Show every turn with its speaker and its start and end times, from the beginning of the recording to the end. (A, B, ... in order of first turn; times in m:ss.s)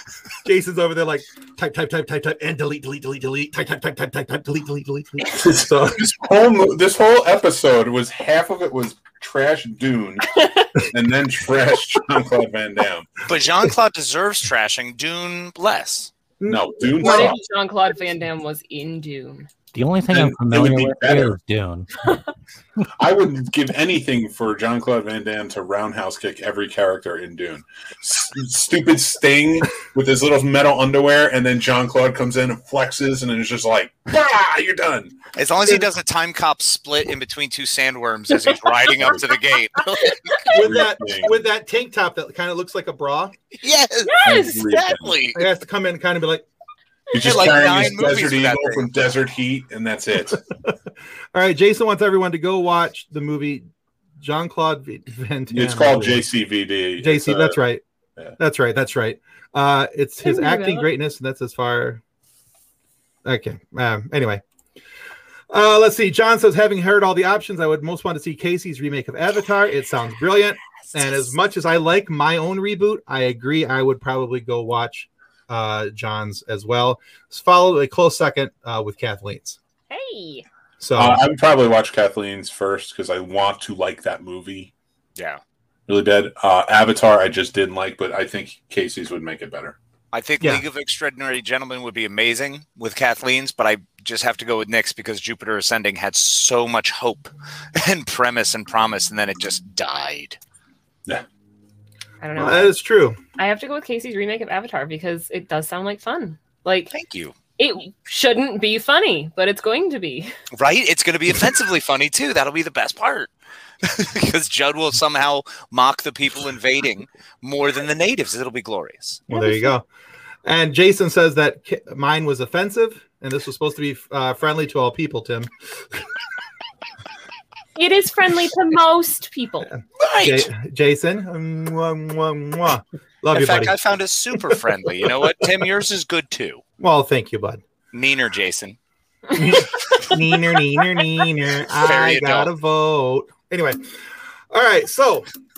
0:00.4-0:06.0 A
0:05.3-0:13.1 B
0:10.3-0:10.7 C
0:13.3-0:16.1 D
0:16.4-0:17.3 A
0:16.5-0:17.4 B
0:17.0-0:19.5 C
0:19.7-0:22.0 E
0:20.1-0:21.4 B
0:23.0-0:35.2 B
0:35.4-0:40.5 D
0:39.0-0:39.2 B
0:40.0-0:40.4 C
0:40.5-0:41.4 B
0:40.5-0:43.3 A
0:43.6-0:45.4 D
0:44.0-0:44.7 C
0:44.2-0:45.2 B
0:45.3-0:46.4 A
0:47.1-0:50.4 B
0:47.1-0:48.9 D
0:51.3-0:53.6 A
0:54.2-0:56.2 A
0:55.5-0:57.6 B
0:57.0-0:57.8 A
0:58.4-1:02.0 A
1:00.2-1:00.9 C
1:03.2-1:04.4 A
1:05.5-1:19.6 A
1:10.9-1:11.3 C
1:19.9-1:20.4 C
1:20.8-1:21.2 A
1:21.0-1:24.7 B
1:25.2-1:25.4 D
1:25.9-1:29.8 B
1:30.1-1:40.4 D
1:42.2-1:42.7 C
1:42.4-1:43.2 A
1:43.4-1:46.9 C
1:46.9-1:47.3 D
1:47.6-1:50.3 C
1:50.5-1:53.3 D
1:53.8-1:59.2 D
1:59.3-1:59.8 A
1:59.3-1:59.7 C
2:00.4-2:05.5 A
2:07.8-2:09.7 C
2:09.7-2:13.8 A
2:10.0-2:10.5 D
2:13.3-2:16.6 D
2:16.8-2:17.6 A
2:17.9-2:18.8 D
2:19.3-2:23.8 A
2:21.7-2:22.5 D
2:24.5-2:25.3 A